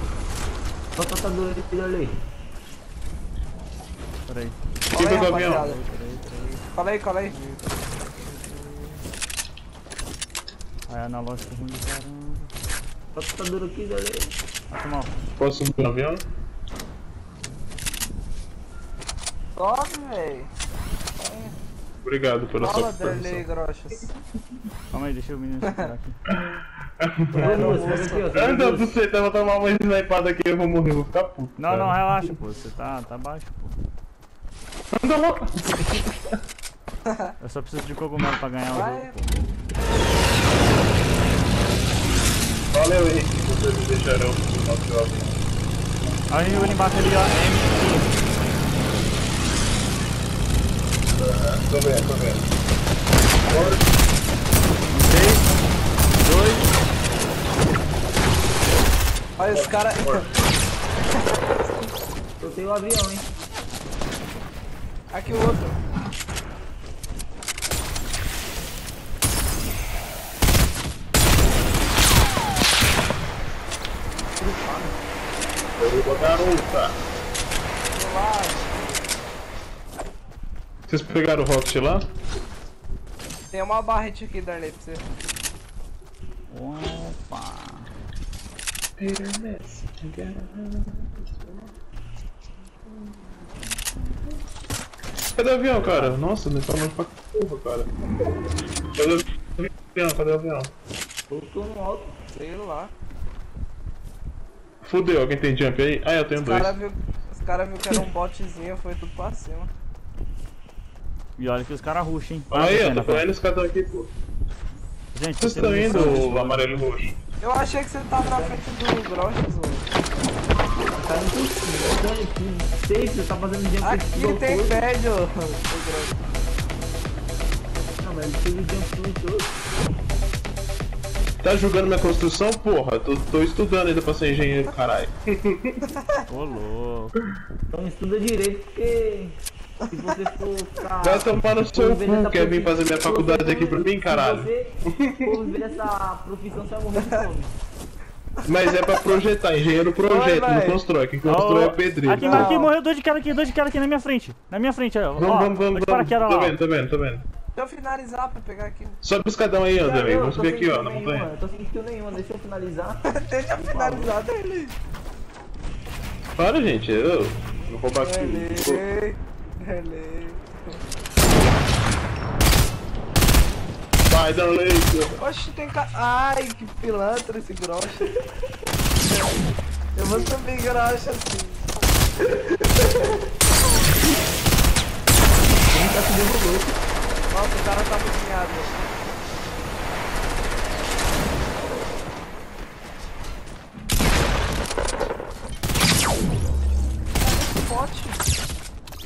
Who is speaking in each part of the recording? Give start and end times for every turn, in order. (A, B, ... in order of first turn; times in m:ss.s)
0:01.0-0:02.2 A
0:04.3-0:04.6 B
0:04.9-0:07.6 C
0:04.9-0:05.7 D
0:05.4-0:06.2 B
0:10.9-0:12.5 B
0:13.1-0:14.3 A
0:14.7-0:15.2 B
0:15.4-0:16.2 D
0:19.6-0:20.5 C
0:21.2-0:21.6 C
0:22.0-0:23.4 D
0:22.6-0:24.1 C
0:24.9-0:26.2 B
0:26.4-0:32.3 D
0:27.3-0:28.3 C
0:27.3-0:28.9 A
0:31.6-0:33.8 B
0:34.9-0:36.2 D
0:37.4-0:39.3 B
0:38.7-0:39.1 C
0:42.7-0:45.4 D
0:46.3-0:48.1 B
0:51.1-0:52.5 D
0:53.4-0:53.8 D
0:54.9-0:55.4 B
0:56.2-0:56.6 B
0:59.4-1:00.2 C
0:59.5-1:00.3 D
1:02.4-1:03.2 A
1:05.1-1:05.8 C
1:14.4-1:14.9 C
1:15.8-1:17.0 D
1:17.9-1:19.1 C
1:20.9-1:22.0 D
1:23.5-1:25.0 C
1:26.5-1:27.9 B
1:29.0-1:31.7 D
1:35.3-1:37.9 D
1:35.7-1:36.2 B
1:39.0-1:40.7 D
1:41.3-1:42.2 A
1:42.3-1:42.9 C
1:44.8-1:46.8 D
1:46.4-1:49.7 C
1:51.4-1:53.3 B
1:52.5-1:54.1 D
1:55.1-1:56.9 B
1:55.4-1:57.2 D
1:55.6-1:56.2 A
1:57.4-1:59.9 C
1:58.2-1:58.6 A
2:00.9-2:04.9 A
2:03.8-2:06.2 C
2:08.0-2:09.5 A
2:11.4-2:15.9 D
2:16.3-2:17.2 B
2:17.7-2:19.4 A
2:19.9-2:20.1 C
2:19.9-2:27.5 A
2:21.0-2:24.5 D
2:25.0-2:25.3 D
2:28.4-2:32.6 D
2:28.6-2:30.8 C
2:31.2-2:36.6 B
2:32.2-2:32.6 C
2:35.2-2:37.2 D
2:37.6-2:39.0 C
2:39.0-2:41.3 D
2:39.8-2:43.0 A
2:43.1-2:44.7 C
2:43.6-2:44.1 A
2:46.4-2:48.8 D
2:48.0-2:50.8 C
2:54.1-2:55.2 D
2:55.2-2:58.2 C
2:59.0-2:59.4 C
3:00.0-3:01.7 C
3:02.2-3:03.2 C
3:05.7-3:06.8 A
3:07.3-3:08.8 C
3:17.2-3:18.2 C